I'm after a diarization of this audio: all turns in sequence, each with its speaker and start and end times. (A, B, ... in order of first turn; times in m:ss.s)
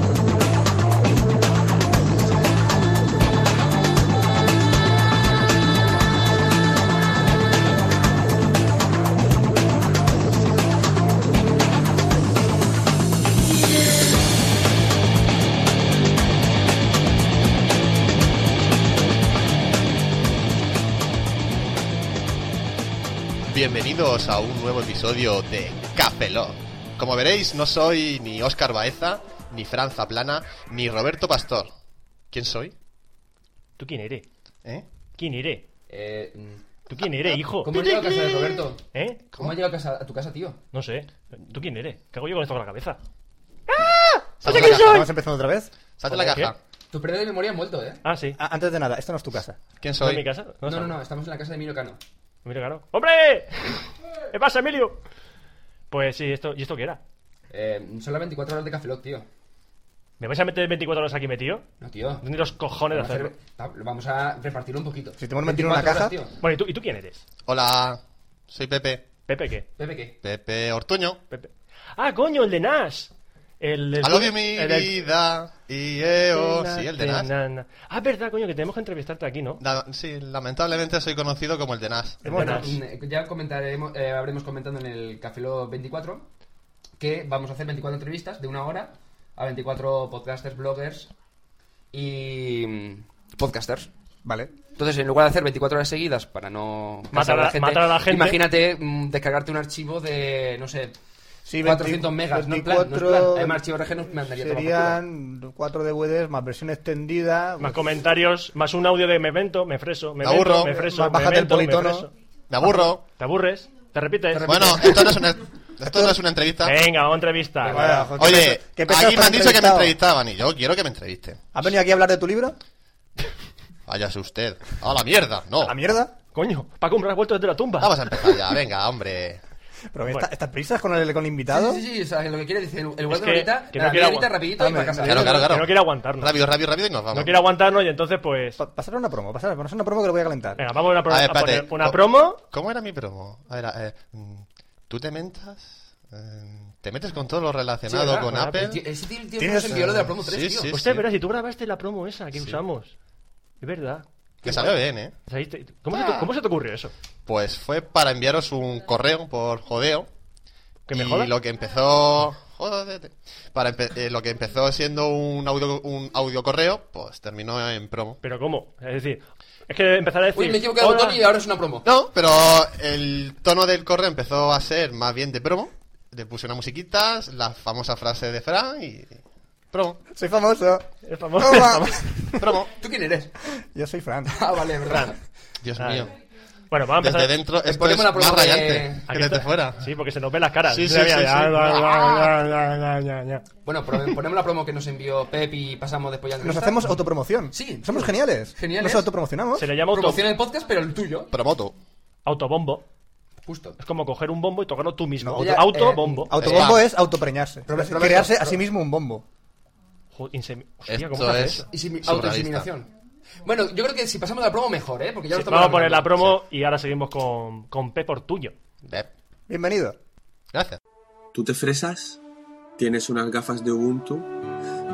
0:23.5-0:31.7 A
0:32.3-0:32.7 A
0:33.8-0:34.3 B
0:35.2-0:35.6 B
0:35.9-0:36.6 C
0:36.9-0:37.7 B
0:37.6-0:40.6 C
0:37.7-0:38.7 A
0:38.9-0:39.2 B
0:40.7-0:43.0 B
0:43.7-0:45.1 B
0:44.4-0:45.1 A
0:44.5-0:45.7 D
0:46.0-0:46.6 A
0:46.1-0:46.4 C
0:46.2-0:46.5 B
0:46.9-0:48.0 C
0:48.0-0:48.4 B
0:48.4-0:49.6 D
0:49.8-0:50.2 A
0:50.0-0:51.0 B
0:50.6-0:52.0 C
0:52.4-0:55.0 B
0:55.9-0:57.0 B
0:57.5-0:59.3 C
1:00.2-1:01.6 B
1:01.8-1:02.3 C
1:02.2-1:03.3 B
1:02.9-1:06.4 C
1:05.2-1:06.2 D
1:06.4-1:07.2 B
1:07.5-1:09.0 A
1:09.3-1:09.7 B
1:09.8-1:10.2 C
1:10.2-1:11.2 A
1:11.3-1:14.9 B
1:14.0-1:17.3 A
1:16.3-1:19.6 B
1:19.6-1:22.3 A
1:22.2-1:22.8 D
1:22.3-1:22.8 B
1:22.3-1:26.3 C
1:27.0-1:31.1 C
1:31.9-1:33.9 C
1:34.2-1:34.5 D
1:34.8-1:41.0 C
1:37.1-1:38.4 B
1:41.5-1:43.6 D
1:41.6-1:45.0 C
1:44.2-1:47.9 D
1:47.6-1:52.1 B
1:50.2-1:50.8 A
1:50.7-1:52.1 D
1:52.5-1:53.0 A
1:52.6-1:54.9 B
1:54.3-1:55.2 C
1:54.5-1:56.8 A
1:55.8-1:56.2 D
1:56.6-1:58.0 B
1:57.6-1:58.2 C
1:57.7-2:00.0 D
1:58.2-2:01.5 A
2:01.5-2:02.6 D
2:03.9-2:05.8 A
2:05.6-2:06.1 D
2:06.3-2:08.4 B
2:07.8-2:09.4 A
2:09.9-2:11.8 D
2:11.5-2:15.4 C
2:13.1-2:14.4 B
2:14.6-2:15.5 D
2:15.1-2:17.4 A
2:15.2-2:16.4 B
2:17.1-2:18.6 B
2:18.6-2:20.6 D
2:20.6-2:22.4 B
2:21.1-2:28.8 A
2:27.9-2:30.7 C
2:29.4-2:30.1 D
2:29.7-2:31.1 A
2:30.7-2:32.9 B
2:32.4-2:32.6 A
2:33.6-2:34.1 B
2:34.4-2:34.8 C
2:34.4-2:35.1 A
2:35.3-2:36.9 B
2:35.9-2:36.3 A
2:37.3-2:40.1 A
2:40.9-2:41.3 B
2:40.9-2:48.2 A
2:48.2-2:51.2 B
2:50.4-2:51.8 C
2:51.8-2:59.2 A
2:59.7-3:00.0 A
3:00.1-3:02.6 D
3:01.0-3:01.9 B
3:02.4-3:02.7 A
3:02.8-3:03.3 C
3:03.5-3:04.4 D
3:04.3-3:05.2 C
3:04.9-3:05.1 B
3:05.6-3:06.1 A
3:05.8-3:06.1 B
3:06.7-3:07.3 B
3:07.0-3:09.8 A
3:07.6-3:09.0 C
3:09.1-3:13.4 B
3:10.7-3:12.3 A
3:13.6-3:16.8 C
3:16.4-3:19.7 D
3:17.5-3:19.1 C
3:19.6-3:20.3 B
3:19.9-3:21.3 C
3:21.3-3:21.8 A
3:22.2-3:22.8 B
3:23.5-3:23.8 C
3:23.8-3:26.3 B
3:25.2-3:29.2 D
3:25.4-3:26.6 C
3:26.4-3:26.8 A
3:27.7-3:28.6 C
3:30.1-3:31.6 B
3:30.9-3:32.7 A
3:31.7-3:32.9 C
3:33.4-3:36.2 C
3:35.3-3:38.6 B
3:39.5-3:40.0 D
3:40.5-3:40.8 A
3:41.3-3:42.2 E
3:42.8-3:44.3 E